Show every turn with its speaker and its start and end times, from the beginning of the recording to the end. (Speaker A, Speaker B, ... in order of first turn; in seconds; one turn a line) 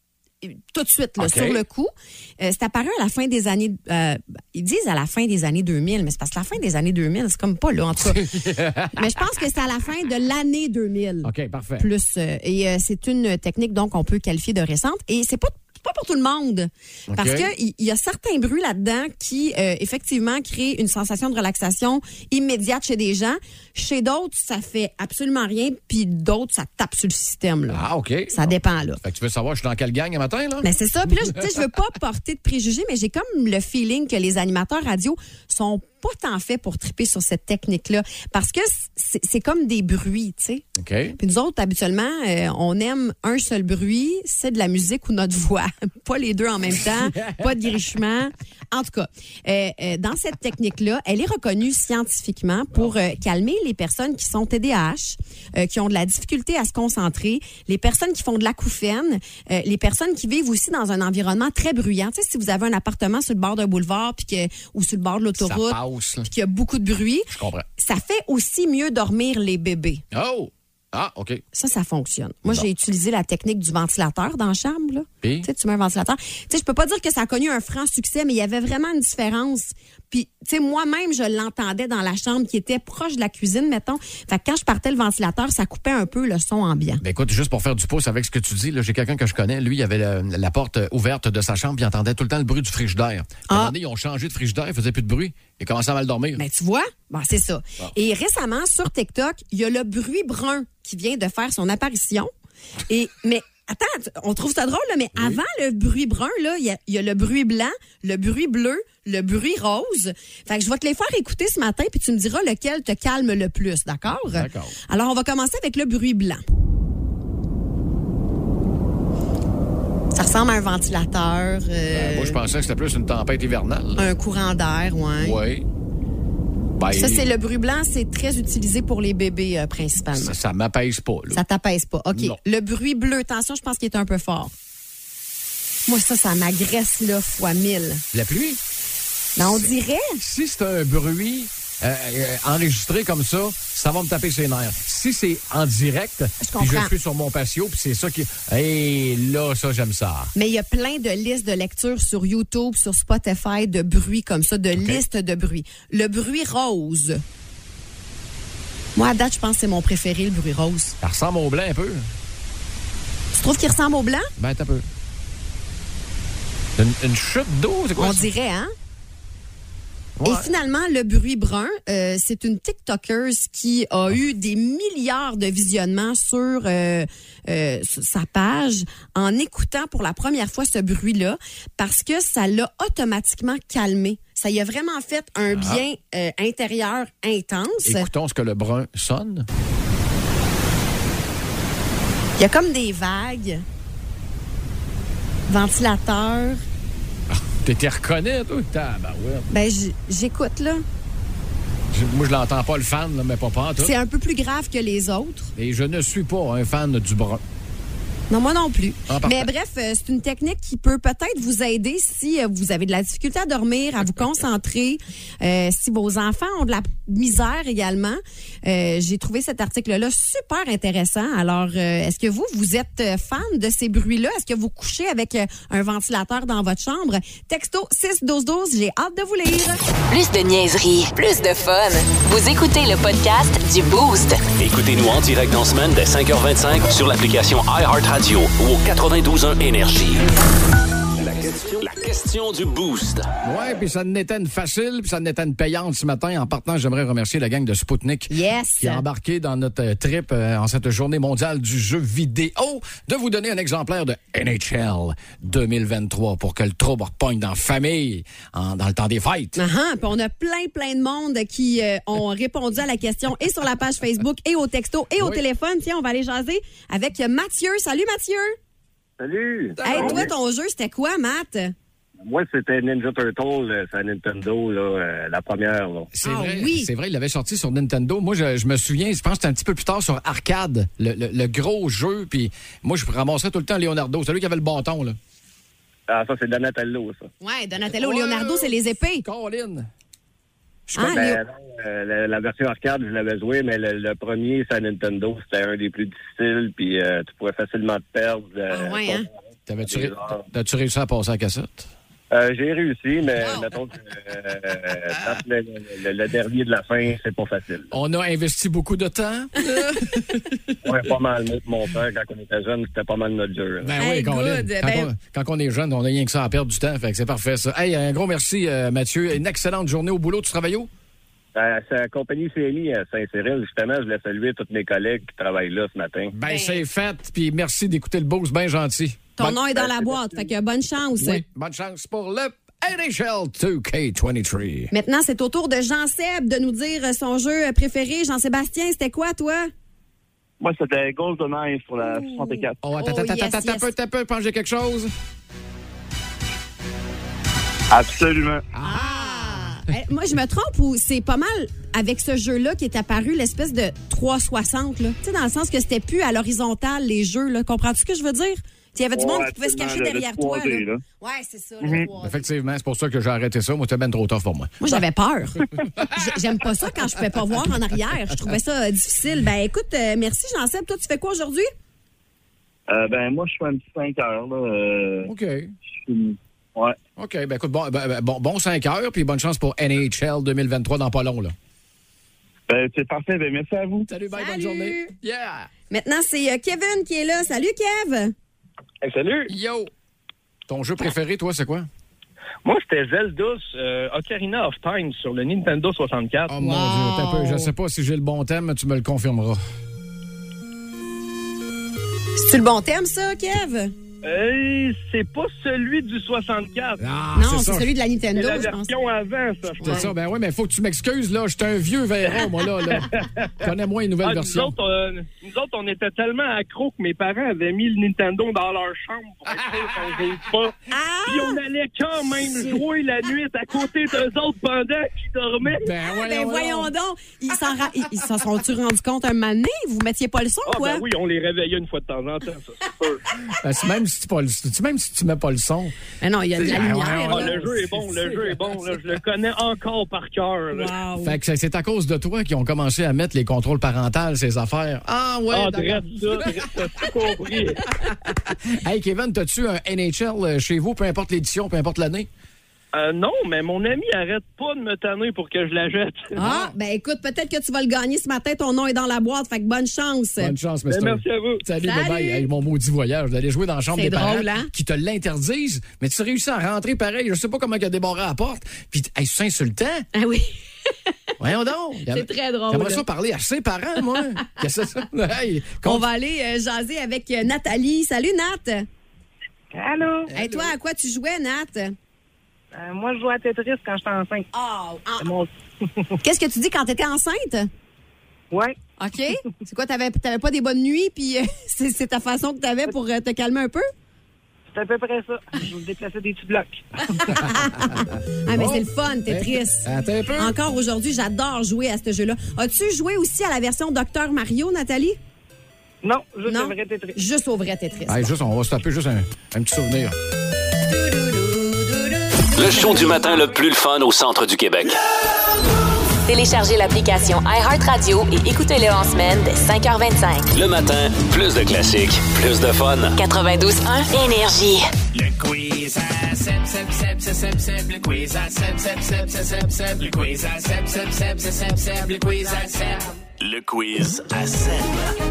Speaker A: 0.4-29.0
Speaker B: 1.2-1.6
Speaker B: 8.1-9.1
Speaker B: 11.2-11.9
Speaker B: 17.1-17.5
Speaker B: 27.7-30.7
Speaker A: 30.6-70.0
Speaker B: 40.8-41.2
Speaker B: 47.1-47.5
Speaker B: 65.4-66.3
Speaker B: 67.3-67.7
Speaker B: 70.1-71.4
Speaker A: 71.5-87.0
Speaker B: 75.2-75.5
Speaker B: 87.0-96.4
Speaker A: 96.4-102.3
Speaker A: 102.9-116.4
Speaker B: 114.3-114.8
Speaker A: 120.1-122.4
Speaker B: 121.9-124.1
Speaker A: 124.0-125.4
Speaker B: 125.2-125.7
Speaker B: 126.8-127.3
Speaker A: 126.9-130.4
Speaker B: 130.2-131.4
Speaker A: 131.3-134.5
Speaker B: 132.1-132.4
Speaker A: 135.9-138.0
Speaker B: 138.1-138.6
Speaker A: 139.4-140.2
Speaker B: 140.2-150.3
Speaker A: 146.4-146.9
Speaker A: 150.3-157.2
Speaker B: 154.8-155.0
Speaker A: 159.0-161.0
Speaker B: 161.0-162.1
Speaker A: 163.3-164.3
Speaker B: 164.4-164.9
Speaker B: 166.8-168.3
Speaker A: 168.0-168.7
Speaker B: 170.2-170.5
Speaker A: 170.2-188.1
Speaker B: 185.5-185.8
Speaker B: 187.8-189.5
Speaker A: 192.4-193.7
Speaker A: 195.5-196.6
Speaker B: 197.3-199.5
Speaker A: 199.5-200.8
Speaker B: 201.9-203.9
Speaker A: 203.8-205.5
Speaker B: 205.6-207.4
Speaker A: 208.3-229.8
Speaker B: 209.1-209.5
Speaker C: 230.1-234.5
Speaker D: 234.6-240.2
Speaker D: 241.2-243.3
Speaker B: 243.4-259.6
Speaker A: 248.3-249.0
Speaker A: 259.6-268.6
Speaker E: 269.2-270.3
Speaker B: 269.8-270.3
Speaker A: 269.8-271.7
Speaker E: 272.2-276.1
Speaker B: 276.1-285.2
Speaker A: 276.2-276.9
Speaker E: 286.1-287.3
Speaker A: 287.4-289.2
Speaker B: 288.0-288.7
Speaker B: 289.2-289.9
Speaker B: 290.9-291.2
Speaker A: 291.0-291.4
Speaker E: 291.0-299.3
Speaker A: 298.7-299.3
Speaker B: 299.7-301.9
Speaker E: 299.9-300.4
Speaker E: 302.3-307.9
Speaker B: 307.9-310.4
Speaker E: 310.8-313.9
Speaker B: 313.8-320.9
Speaker A: 314.0-315.1
Speaker E: 321.6-326.3
Speaker B: 326.3-329.6
Speaker A: 326.5-326.8
Speaker A: 329.4-331.4
Speaker E: 329.8-330.4
Speaker B: 331.2-334.9
Speaker A: 334.9-339.7
Speaker F: 340.6-342.8
Speaker A: 342.0-343.9
Speaker B: 342.8-345.1
Speaker F: 347.9-348.6
Speaker B: 348.7-349.7
Speaker A: 348.8-362.4
Speaker F: 359.1-361.0
Speaker B: 362.2-364.7
Speaker A: 364.8-371.7
Speaker F: 372.9-375.3
Speaker B: 375.2-375.7
Speaker F: 376.1-377.0
Speaker B: 377.2-381.5
Speaker F: 382.7-384.1
Speaker B: 384.1-385.7
Speaker A: 384.3-385.1
Speaker A: 385.9-388.3
Speaker G: 389.0-389.5
Speaker B: 389.5-389.9
Speaker B: 390.7-391.9
Speaker G: 392.6-396.5
Speaker B: 396.5-399.6
Speaker A: 396.6-397.7
Speaker A: 402.4-403.9
Speaker G: 404.2-407.0
Speaker B: 407.0-407.9
Speaker A: 407.4-409.0
Speaker G: 408.3-410.1
Speaker A: 409.8-410.1
Speaker B: 409.8-413.1
Speaker G: 412.9-413.4
Speaker B: 413.6-414.7
Speaker G: 414.2-425.9
Speaker A: 420.9-421.6
Speaker B: 425.8-426.9
Speaker A: 426.1-431.1
Speaker G: 430.6-433.2
Speaker B: 433.6-435.9
Speaker A: 436.2-438.0
Speaker B: 436.6-438.6
Speaker G: 437.2-441.2
Speaker A: 440.8-441.2
Speaker B: 441.2-446.5
Speaker G: 445.5-447.9
Speaker B: 448.3-452.3
Speaker G: 452.9-456.4
Speaker B: 456.4-456.7
Speaker A: 456.4-460.6
Speaker B: 460.4-470.1
Speaker G: 460.9-461.6
Speaker A: 461.8-462.5
Speaker A: 463.9-464.7
Speaker A: 470.1-470.6
Speaker B: 471.4-476.1
Speaker A: 472.1-473.0
Speaker A: 475.8-478.9
Speaker H: 479.7-480.3
Speaker B: 480.3-480.7
Speaker A: 480.3-481.9
Speaker H: 482.7-484.5
Speaker A: 484.5-485.3
Speaker H: 485.2-485.5
Speaker A: 486.2-487.7
Speaker A: 489.0-493.9
Speaker H: 494.7-496.8
Speaker A: 497.1-505.2
Speaker B: 497.2-500.5
Speaker H: 506.0-507.2
Speaker A: 506.4-508.3
Speaker B: 508.1-510.2
Speaker D: 512.5-515.0
Speaker C: 516.3-520.5
Speaker D: 520.5-523.2
Speaker C: 523.2-524.9
Speaker I: 525.1-535.1